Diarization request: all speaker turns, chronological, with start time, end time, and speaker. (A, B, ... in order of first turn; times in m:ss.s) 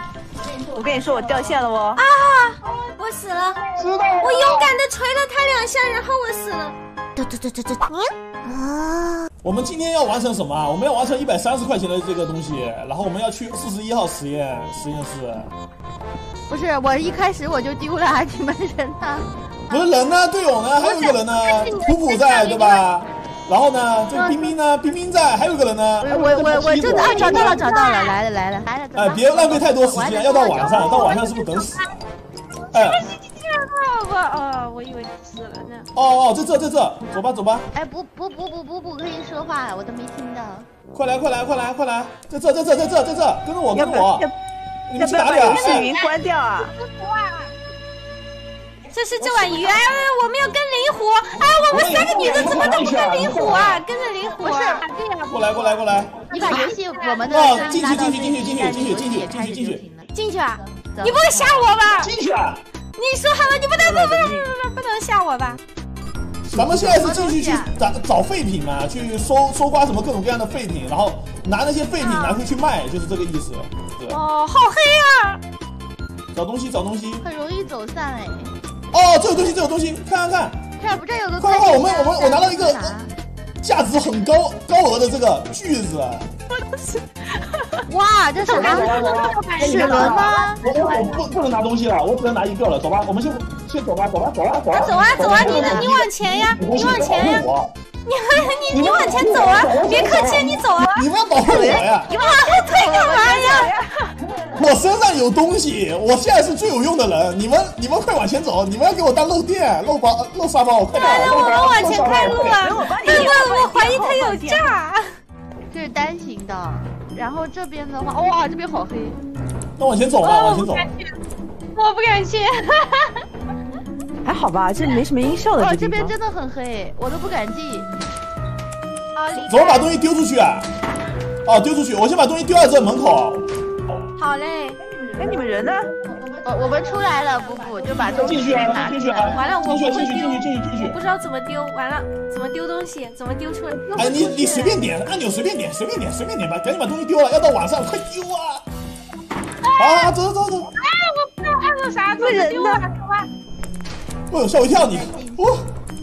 0:00.6-0:02.0 A
0:02.0-0:03.6 B
0:03.8-0:04.4 C
0:04.2-0:06.8 B
0:09.4-0:15.5 C
0:16.5-0:19.2 D
0:19.7-0:27.6 C
0:20.8-0:22.8 B
0:26.0-0:31.3 D
0:26.9-0:28.2 B
0:28.9-0:32.0 C
0:30.8-0:31.9 B
0:32.7-0:35.9 B
0:32.7-0:33.0 C
0:35.9-0:37.7 C
0:37.7-0:40.7 D
0:40.9-0:44.3 C
0:43.7-0:44.3 A
0:44.9-0:45.9 C
0:45.0-0:46.7 A
0:45.6-0:47.5 B
0:48.9-0:55.7 B
0:51.7-0:53.8 C
0:54.4-0:54.9 D
0:55.3-0:56.2 C
0:56.3-0:57.6 B
0:56.3-1:00.1 D
0:57.3-0:59.8 C
1:00.1-1:02.1 B
1:00.9-1:01.7 D
1:02.0-1:02.6 C
1:03.0-1:05.6 B
1:03.8-1:04.5 A
1:06.5-1:14.2 C
1:06.8-1:07.7 D
1:12.0-1:12.4 B
1:14.1-1:15.4 B
1:16.3-1:17.2 C
1:17.2-1:18.5 D
1:18.9-1:20.6 C
1:20.8-1:23.1 D
1:21.4-1:22.9 C
1:23.6-1:26.3 C
1:27.9-1:30.6 D
1:28.4-1:31.2 B
1:28.4-1:37.7 C
1:29.7-1:30.1 A
1:34.7-1:37.5 B
1:38.0-1:41.0 B
1:38.7-1:42.1 C
1:41.4-1:41.9 A
1:42.0-1:43.8 B
1:42.1-1:43.4 D
1:43.1-1:43.9 A
1:44.4-1:52.7 C
1:51.0-1:55.2 B
1:52.1-1:54.7 A
1:55.7-1:59.2 D
1:59.8-2:00.9 C
2:00.2-2:01.1 B
2:01.7-2:03.2 B
2:04.2-2:06.1 A
2:05.6-2:07.9 D
2:09.2-2:09.9 B
2:09.4-2:10.7 C
2:11.4-2:13.4 C
2:14.2-2:14.8 B
2:15.2-2:15.9 A
2:16.4-2:19.5 D
2:18.1-2:21.0 C
2:19.3-2:24.8 B
2:24.0-2:28.6 C
2:29.7-2:30.1 B
2:29.8-2:30.7 C
2:30.8-2:33.3 B
2:32.1-2:32.8 A
2:34.3-2:35.6 C
2:34.8-2:35.5 D